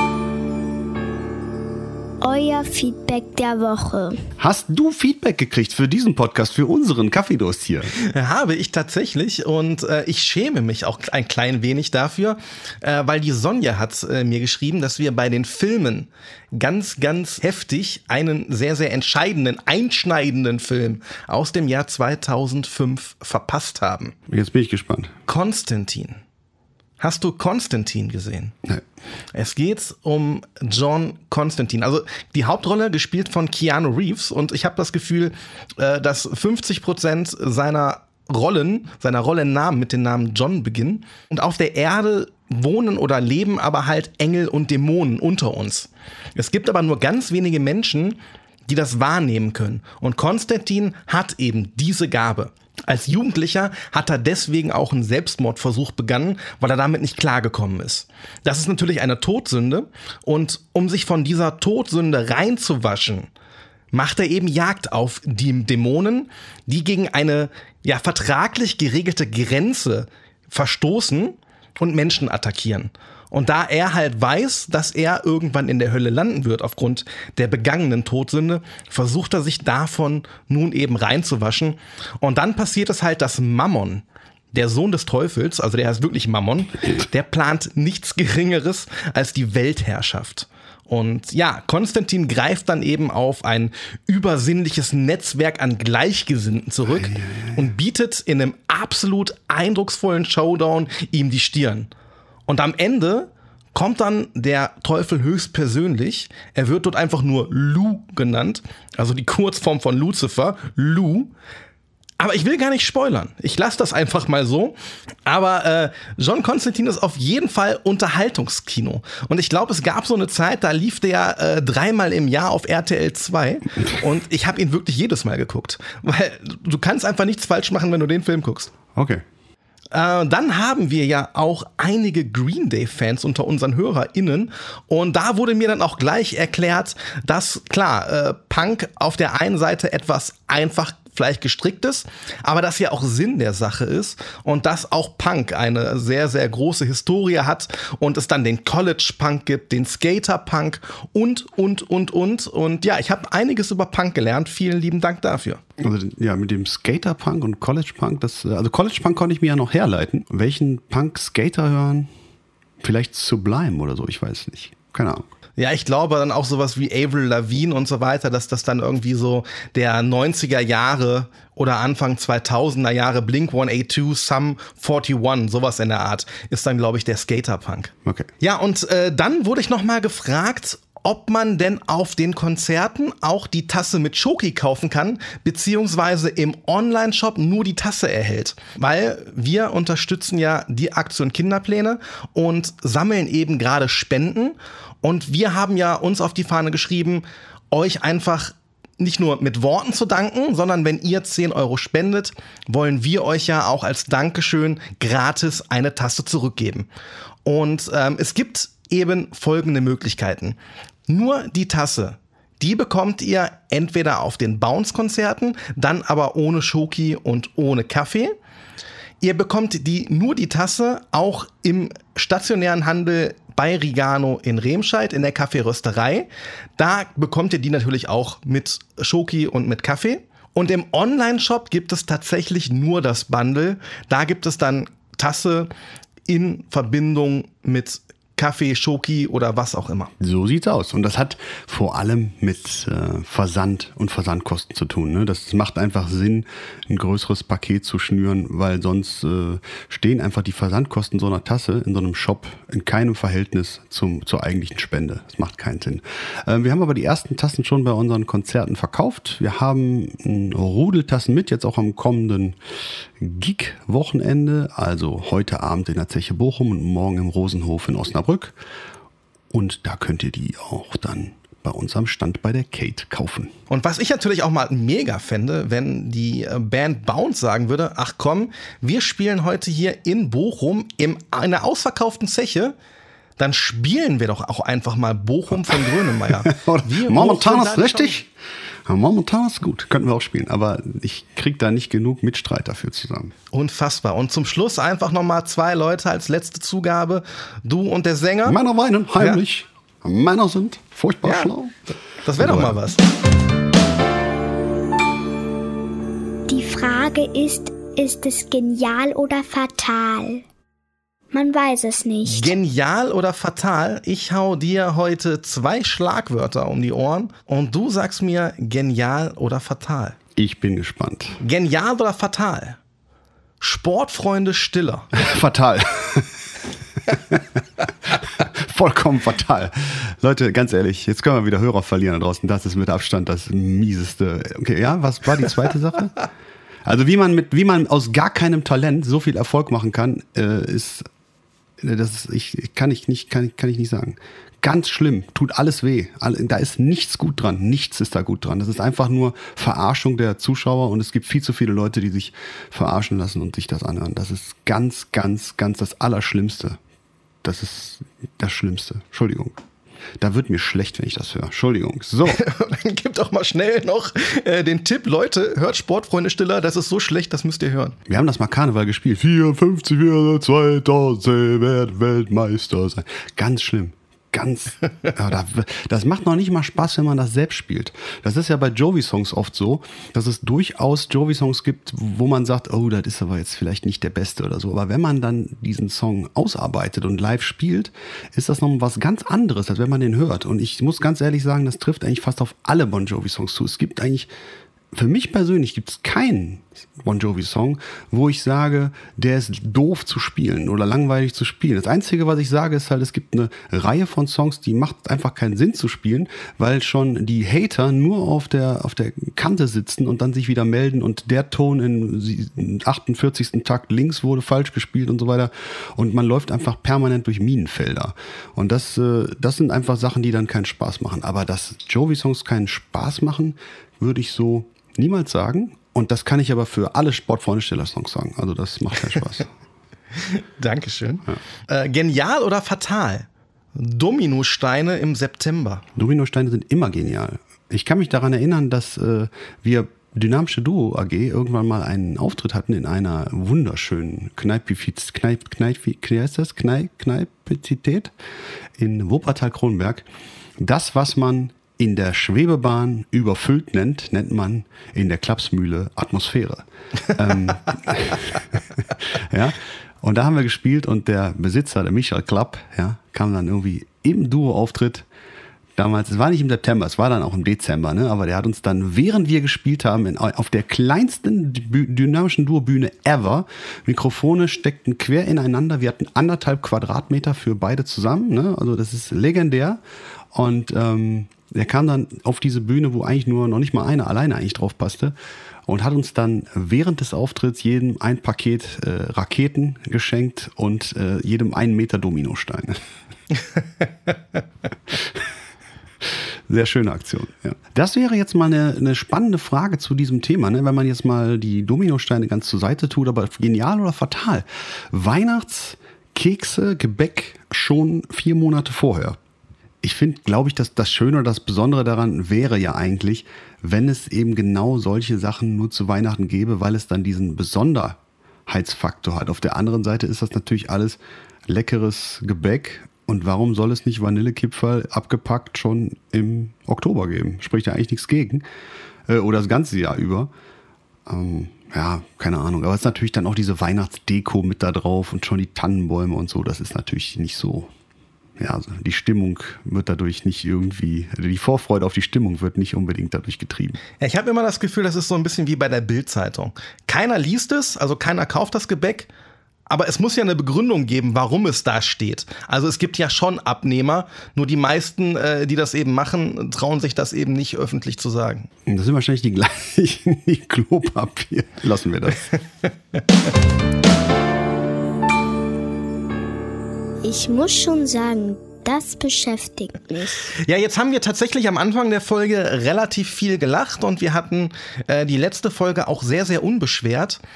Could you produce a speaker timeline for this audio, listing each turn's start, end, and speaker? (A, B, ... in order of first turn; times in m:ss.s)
0:02.2-0:04.3 A
0:04.4-0:07.9 B
0:08.0-0:24.1 C
0:24.3-0:25.1 B
0:25.3-0:26.2 C
0:27.0-0:28.5 C
0:29.3-1:03.3 C
1:03.9-1:41.9 C
1:36.9-1:37.6 B
1:42.5-1:51.3 C
1:52.2-1:54.7 C
1:55.2-2:08.7 C
2:08.9-2:09.2 B
2:09.9-2:35.6 C
2:35.8-2:42.1 B
2:42.8-2:45.3 B
2:45.6-3:26.9 C
3:27.4-3:30.6 C
3:31.1-3:38.3 C
3:39.2-3:55.7 C
3:56.3-4:00.1 C
4:00.2-4:22.6 B
4:23.2-4:28.6 B
4:29.5-4:33.5 B
4:33.7-4:42.7 C
4:43.4-4:48.2 C
4:45.7-4:48.3 B
4:48.9-4:53.3 B
4:53.5-4:58.6 C
4:58.4-5:01.8 B
5:01.2-5:01.5 C
5:02.2-5:03.0 C
5:02.4-5:02.8 B
5:06.5-5:10.4 A
5:11.3-5:12.5 A
5:12.2-5:20.2 C
5:20.4-5:21.4 B
5:21.4-5:22.8 C
5:23.6-5:25.1 C
5:25.1-5:26.4 B
5:27.1-5:27.4 B
5:28.1-5:36.3 B
5:36.8-5:41.0 B
5:41.8-5:56.8 B
5:57.4-5:59.6 B
6:00.2-6:02.4 B
6:02.2-6:08.0 C
6:08.1-6:34.3 B
6:34.9-7:09.5 B
7:10.2-7:15.8 C
7:16.0-7:28.1 B
7:28.8-7:30.0 B
7:30.6-7:45.1 B
7:45.8-7:59.8 B
8:00.3-8:05.1 B
8:05.6-8:12.8 B
8:14.9-8:15.2 B
8:16.0-8:29.2 B
8:29.8-8:48.4 B
8:49.1-8:50.3 B
8:51.1-8:57.7 B
8:58.4-9:03.8 B
9:04.0-9:09.1 C
9:09.7-9:18.5 C
9:18.7-9:22.3 B
9:27.0-9:30.2 A
9:30.3-9:37.2 C